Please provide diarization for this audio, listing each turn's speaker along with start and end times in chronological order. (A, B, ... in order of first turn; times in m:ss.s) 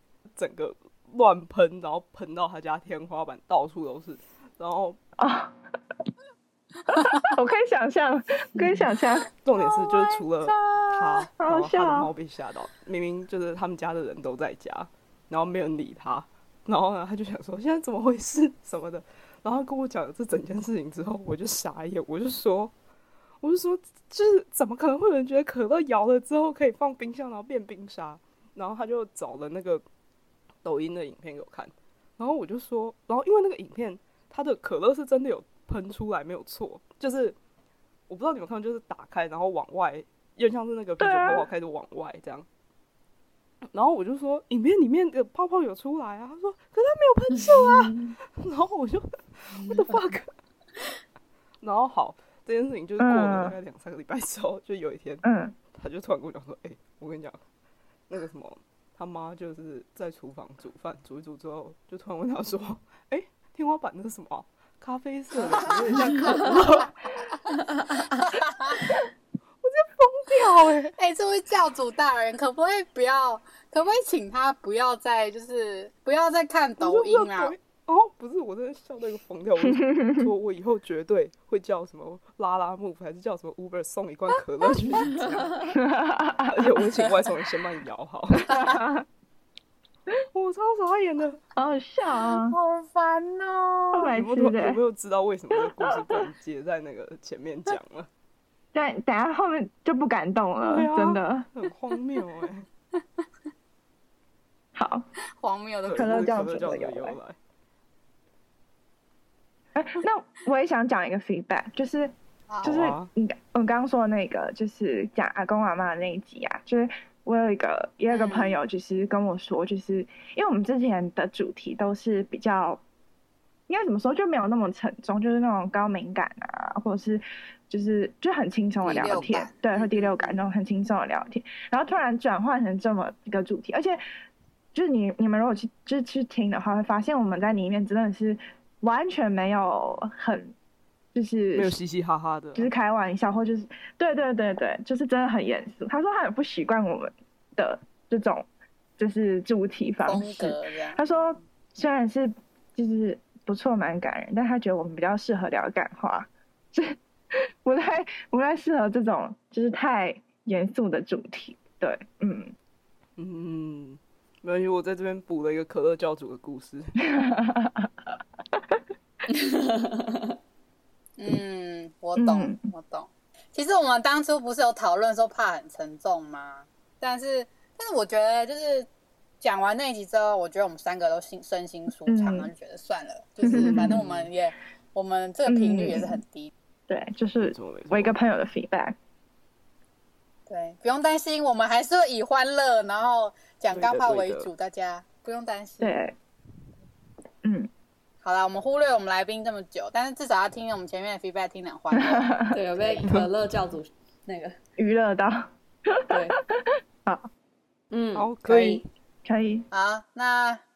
0:00.4-0:05.0 A
0:05.2-0:05.6 B
0:06.9-0:09.3 B
0:09.4-0:22.7 A
0:09.5-0:11.1 C
0:11.4-0:12.1 B
0:23.4-0:29.8 A
0:30.6-0:37.4 A
0:38.1-0:42.5 A
0:41.0-0:41.5 B
0:43.7-0:50.3 A
0:51.6-0:57.4 A
0:53.0-0:53.6 B
0:55.2-0:55.6 B
0:58.1-1:07.0 A
1:05.5-1:08.8 C
1:09.6-1:10.9 A
1:11.0-1:17.5 C
1:16.8-1:25.7 A
1:19.6-1:20.3 B
1:25.8-1:26.5 B
1:26.5-1:28.5 A
1:28.5-1:29.0 B
1:30.3-1:31.4 A
1:31.6-1:32.6 B
1:32.2-1:34.1 C
1:33.9-1:34.8 B
1:34.0-1:38.1 A
1:35.8-1:36.1 B
1:38.7-1:41.5 B
1:40.6-1:42.7 A
1:44.8-1:45.1 B
1:45.4-1:46.4 C
1:45.8-1:47.4 A
1:46.0-1:47.2 B
1:49.8-2:02.8 B
1:52.5-1:52.8 C
1:52.7-1:53.1 A
1:58.1-1:58.6 C
2:03.7-2:14.0 B
2:08.8-2:10.5 C
2:14.7-2:20.5 B
2:21.2-2:21.8 B
2:21.6-2:22.7 A
2:22.6-2:28.5 B
2:29.0-2:37.0 B
2:30.0-2:31.0 C
2:37.6-2:42.6 B
2:43.2-2:47.1 A
2:47.0-2:47.9 B
2:49.3-2:50.3 D
2:51.2-2:58.9 C
2:52.2-2:52.6 B
2:59.4-3:06.5 C
3:02.1-3:02.5 B
3:03.4-3:04.0 B
3:03.5-3:04.3 A
3:05.4-3:06.2 B
3:06.9-3:09.0 B
3:07.4-3:08.2 A
3:10.5-3:16.0 C
3:13.7-3:14.5 A
3:15.8-3:16.2 B
3:17.4-3:17.7 B
3:18.2-3:23.1 C
3:21.9-3:22.6 B
3:22.5-3:24.6 D
3:23.0-3:23.3 A
3:24.8-3:27.3 B
3:26.1-3:26.4 D
3:27.9-3:28.8 D
3:28.2-3:28.9 A
3:29.3-3:29.7 B
3:29.7-3:30.6 C